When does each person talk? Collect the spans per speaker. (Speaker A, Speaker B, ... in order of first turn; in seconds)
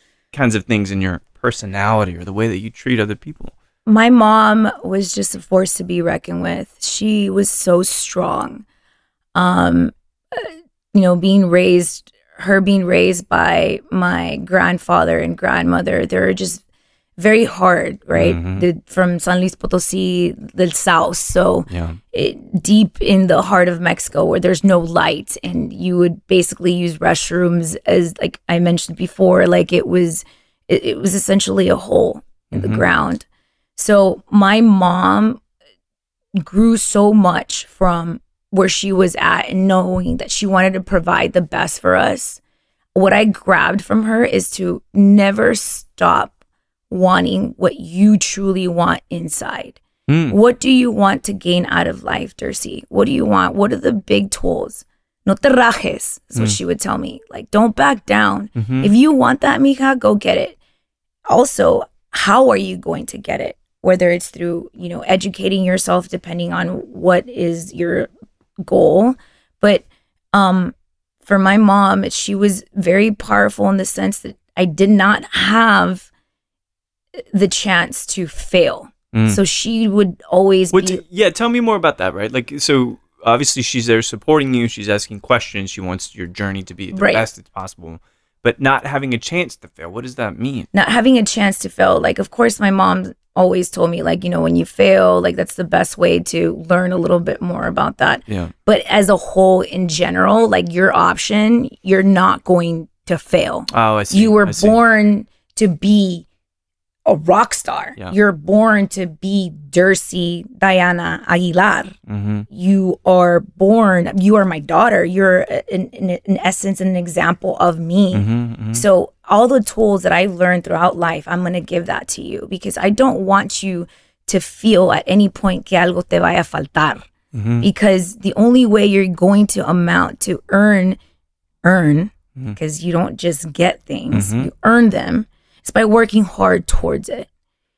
Speaker A: 0.3-3.5, 18.1-18.7, 21.7-22.0, 32.5-32.9, 50.1-50.4, 58.6-58.9, 79.1-79.4, 80.7-90.7, 98.3-98.5, 103.7-104.8, 112.1-112.5, 118.1-118.9, 127.3-127.7, 134.1-134.5
Speaker B: 3.9-8.6, 9.3-16.6, 17.2-33.2, 33.8-35.4, 36.4-42.4, 43.0-46.3, 46.9-60.6, 61.3-68.1, 68.6-70.7, 71.2-76.1, 77.2-81.0, 86.9-87.3, 90.7-106.3, 107.1-112.0, 112.5-127.1, 127.6-131.0, 131.6-137.3